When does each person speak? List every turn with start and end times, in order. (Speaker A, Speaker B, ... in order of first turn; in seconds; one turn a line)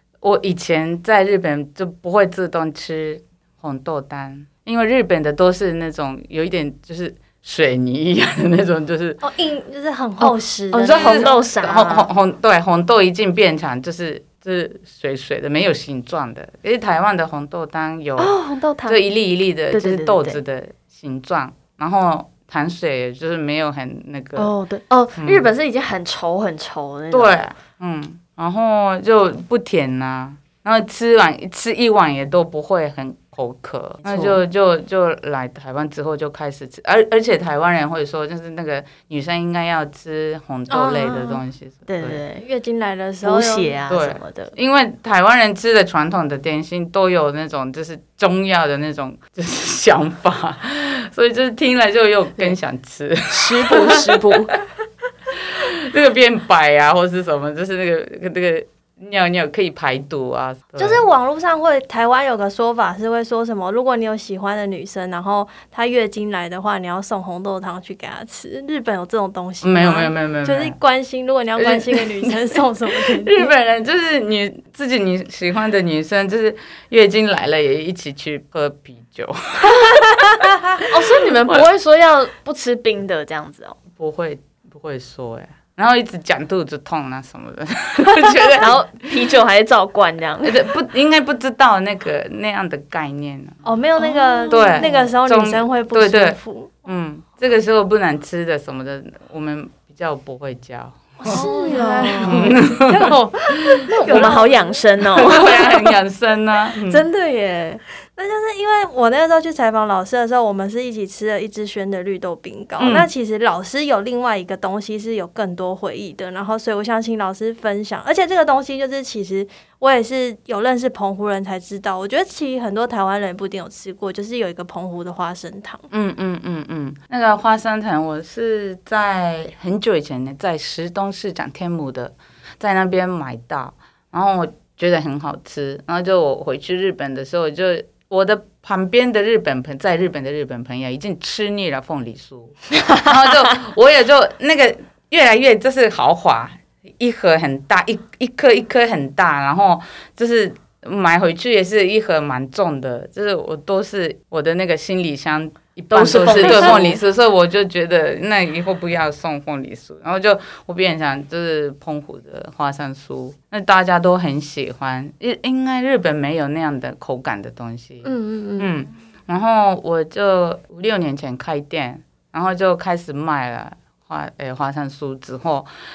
Speaker A: 0.2-9.2
Speaker B: 9.2-11.5
Speaker C: 10.2-12.1
Speaker A: 10.7-18.3
Speaker C: 18.2-19.0
Speaker A: 18.9-24.5
Speaker C: 19.7-20.4
Speaker C: 24.4-27.4
Speaker A: 25.2-25.5
Speaker A: 27.1-42.2
Speaker C: 34.0-34.4
Speaker B: 40.7-41.2
Speaker C: 41.9-42.4
Speaker B: 42.3-43.7
Speaker C: 43.2-44.5
Speaker A: 43.9-54.5
Speaker C: 53.3-54.5
Speaker A: 55.3-61.0
Speaker B: 60.8-73.5
Speaker A: 69.6-70.8
Speaker A: 71.6-80.4
Speaker C: 80.8-83.8
Speaker A: 83.9-88.9
Speaker C: 88.6-90.6
Speaker A: 90.4-93.5
Speaker B: 93.6-96.8
Speaker C: 94.0-95.0
Speaker A: 94.5-101.4
Speaker B: 101.2-105.5
Speaker C: 101.2-102.5
Speaker A: 102.2-103.1
Speaker C: 103.9-105.8
Speaker A: 105.2-107.0
Speaker C: 106.8-107.8
Speaker B: 108.2-125.8
Speaker A: 112.8-113.1
Speaker A: 125.9-175.7
Speaker C: 142.8-143.5
Speaker C: 155.9-157.0
Speaker B: 168.0-168.7